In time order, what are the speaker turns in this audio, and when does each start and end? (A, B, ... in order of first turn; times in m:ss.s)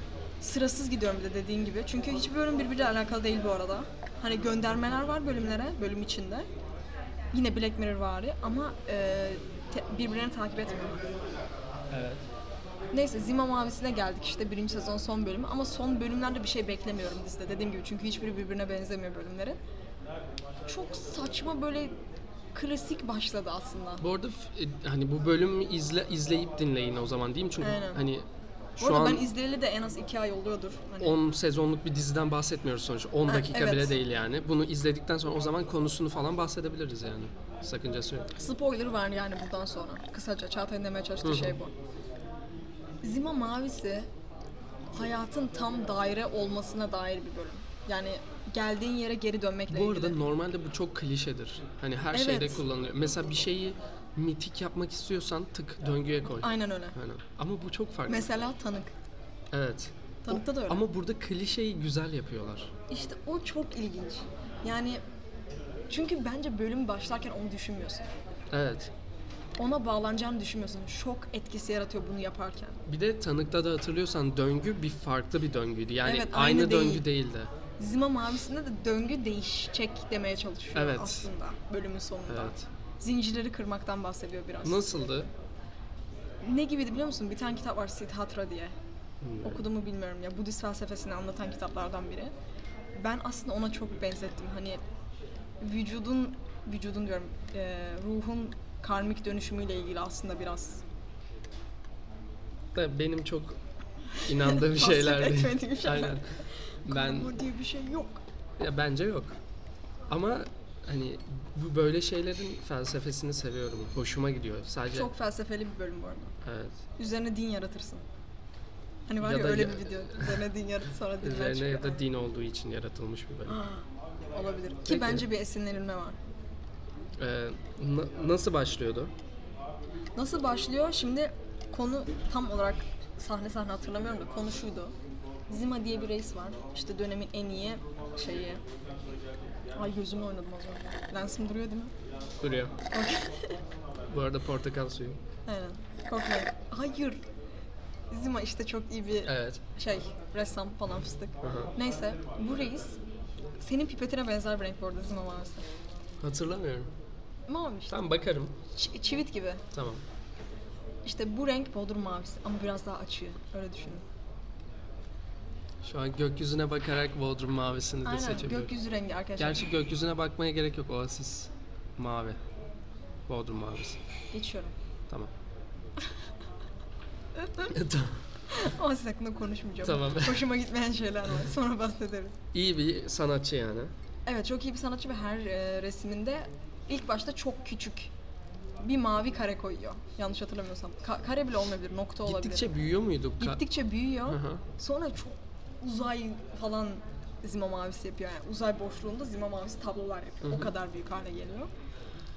0:00.4-0:06.5 A
0:07.3-0:11.0 A
0:11.9-0:12.2 B
0:12.9-0:19.6 A
0:20.7-0:21.9 A
0:22.5-0:24.0 A
0:24.0-0:28.3 B
0:27.6-0:28.0 A
0:28.8-0:29.3 B
0:28.8-0:31.2 A
0:31.0-0:38.3 B
0:33.3-0:34.0 A
0:38.4-0:41.7 A
0:41.2-0:41.6 B
0:43.0-0:44.1 A
0:44.9-0:50.2 A
0:49.7-0:58.3 B
0:52.1-0:52.6 A
0:56.3-0:57.0 A
0:58.1-0:58.9 A
0:59.5-1:02.7 B
1:00.2-1:00.8 A
1:02.9-1:05.0 A
1:05.9-1:08.1 A
1:08.5-1:08.9 B
1:09.6-1:12.8 A
1:12.9-1:17.5 B
1:16.0-1:17.0 A
1:17.8-1:24.8 A
1:20.7-1:21.3 B
1:22.3-1:22.7 B
1:24.6-1:25.3 B
1:26.4-1:28.7 A
1:29.2-1:29.6 B
1:29.4-1:32.3 A
1:33.0-1:34.8 A
1:35.6-1:40.8 A
1:42.8-1:43.6 B
1:44.2-1:47.4 B
1:44.3-1:48.2 A
1:48.6-1:49.4 B
1:50.1-1:55.1 B
1:54.9-1:56.3 A
1:56.4-1:56.8 B
1:57.0-1:58.0 A
1:59.1-2:02.0 A
1:59.2-2:00.4 B
2:01.2-2:03.6 B
2:03.5-2:06.2 A
2:04.9-2:05.3 B
2:07.2-2:09.1 B
2:10.2-2:14.9 A
2:15.5-2:18.6 A
2:19.8-2:21.9 A
2:22.4-2:22.8 B
2:22.9-2:23.6 A
2:24.1-2:25.2 B
2:25.5-2:27.2 A
2:28.1-2:33.0 A
2:29.3-2:29.6 B
2:31.4-2:31.7 B
2:33.6-2:35.7 A
2:36.2-2:36.9 B
2:37.5-2:38.0 A
2:37.9-2:38.6 B
2:38.7-2:39.6 A
2:39.7-2:40.0 B
2:41.0-2:44.0 A
2:45.8-2:48.7 B
2:48.0-2:49.7 A
2:49.4-2:52.4 B
2:53.3-2:54.0 B
2:54.3-2:54.7 A
2:57.7-2:58.2 B
2:58.5-3:02.4 A
2:59.8-3:00.5 B
3:02.5-3:03.9 B
3:04.3-3:08.1 A
3:08.8-3:12.7 A
3:12.2-3:13.6 B
3:13.4-3:21.7 A
3:14.3-3:14.6 B
3:20.4-3:20.7 B